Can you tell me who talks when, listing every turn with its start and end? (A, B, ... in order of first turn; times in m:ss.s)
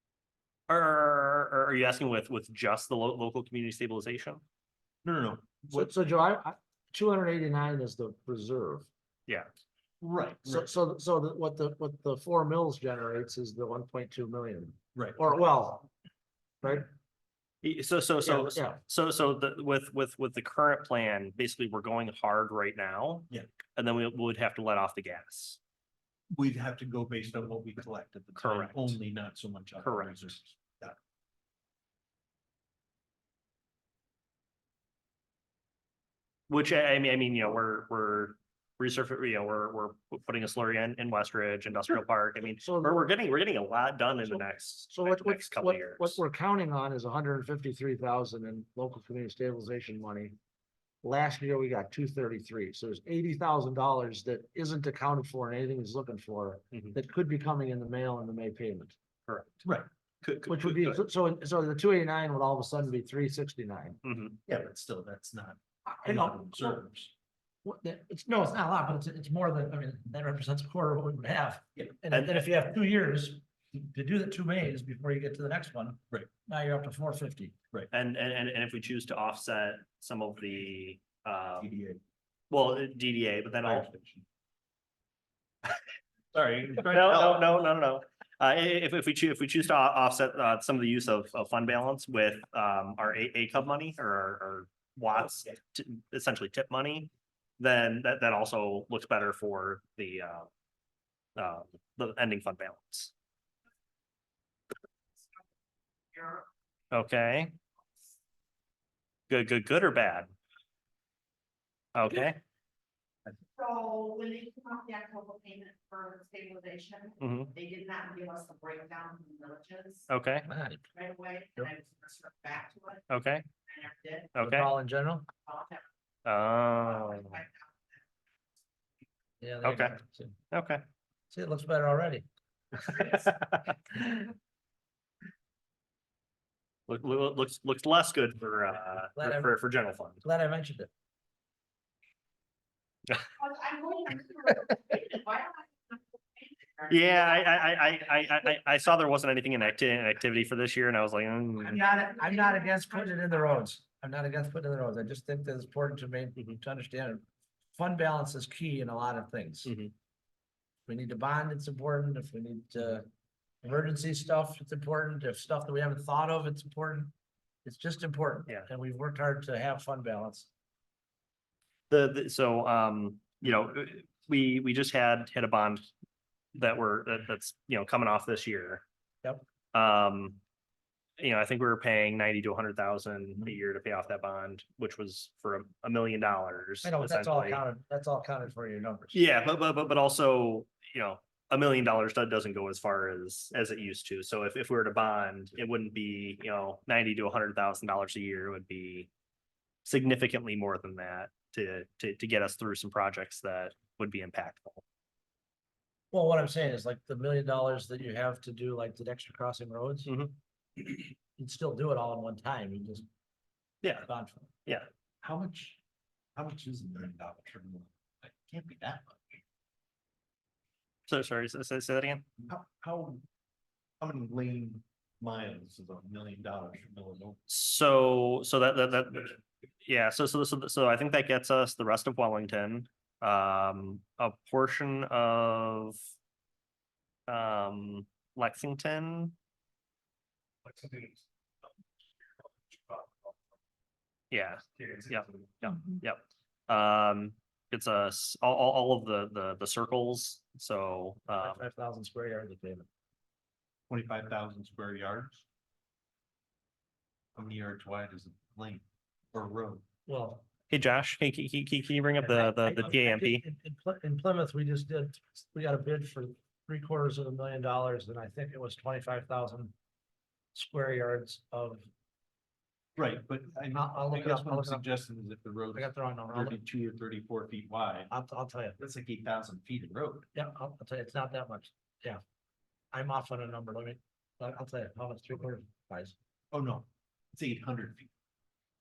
0:00.7-0:04.4 A
0:05.0-0:05.9 B
0:05.7-0:08.9 C
0:10.0-0:10.7 B
0:10.4-0:15.9 C
0:14.9-0:15.3 B
0:16.6-0:16.9 C
0:17.6-0:25.6 A
0:18.2-0:18.8 C
0:26.3-0:31.0 B
0:28.4-0:29.0 A
0:29.8-0:30.4 A
0:36.5-0:46.2 A
0:42.6-0:43.0 C
0:44.2-0:50.4 C
0:51.0-0:59.0 C
0:59.3-0:59.6 A
0:59.6-1:01.0 B
1:00.5-1:04.0 C
1:04.0-1:04.4 A
1:04.4-1:07.1 B
1:05.9-1:06.8 C
1:07.6-1:17.5 C
1:12.1-1:12.5 A
1:17.9-1:21.7 A
1:21.6-1:22.0 B
1:22.5-1:23.9 A
1:23.6-1:24.2 B
1:26.3-1:27.5 B
1:26.8-1:40.5 A
1:41.4-1:43.1 A
1:46.1-1:46.4 D
1:46.9-1:47.5 A
1:49.3-1:50.3 A
1:51.9-1:52.4 A
1:53.5-2:00.1 D
1:57.2-1:57.5 A
2:00.1-2:00.5 A
2:00.4-2:00.9 C
2:00.9-2:03.0 D
2:03.1-2:03.5 A
2:03.7-2:04.3 D
2:04.3-2:04.7 A
2:04.4-2:05.3 C
2:05.4-2:05.8 D
2:06.2-2:07.4 A
2:06.9-2:07.7 D
2:09.4-2:10.4 C
2:09.6-2:10.0 A
2:10.5-2:10.8 A
2:11.3-2:12.2 C
2:12.8-2:13.2 D
2:12.9-2:14.0 A
2:16.9-2:20.2 A
2:19.2-2:19.5 C
2:20.2-2:20.9 C
2:23.4-2:28.0 D
2:26.9-2:31.9 A
2:31.6-2:37.2 C
2:32.2-2:33.3 D
2:37.8-2:39.7 C
2:39.6-2:39.9 A
2:40.9-2:43.1 C
2:43.6-2:47.1 C
2:47.6-2:50.5 C
2:51.9-2:55.9 A
2:56.5-2:58.8 A
2:59.7-3:00.4 A
3:01.2-3:07.6 A
3:06.8-3:09.2 C
3:09.1-3:19.1 A
3:19.8-3:24.8 A
3:26.1-3:30.1 C
3:30.0-3:30.4 A
3:30.8-3:33.0 C
3:33.8-3:34.1 A
3:34.0-3:34.5 C
3:35.2-3:35.8 B
3:36.4-3:39.4 B
3:41.1-3:42.2 A
3:42.4-3:43.2 B
3:44.0-3:47.4 B
3:47.5-3:56.0 A
3:57.3-3:59.3 A
4:00.6-4:01.2 B
4:02.7-4:03.4 B
4:04.3-4:11.6 A
4:04.8-4:05.0 B
4:11.4-4:12.9 C
4:13.9-4:15.4 B
4:17.3-4:19.8 B
4:20.1-4:20.4 C
4:20.7-4:23.4 A
4:22.2-4:29.7 C
4:30.5-4:31.9 C
4:33.0-4:38.1 B
4:33.7-4:34.8 C
4:35.7-4:36.6 C
4:38.1-4:38.8 C
4:38.8-4:40.3 B
4:40.3-4:42.2 C
4:42.9-4:46.1 C
4:46.5-4:48.1 B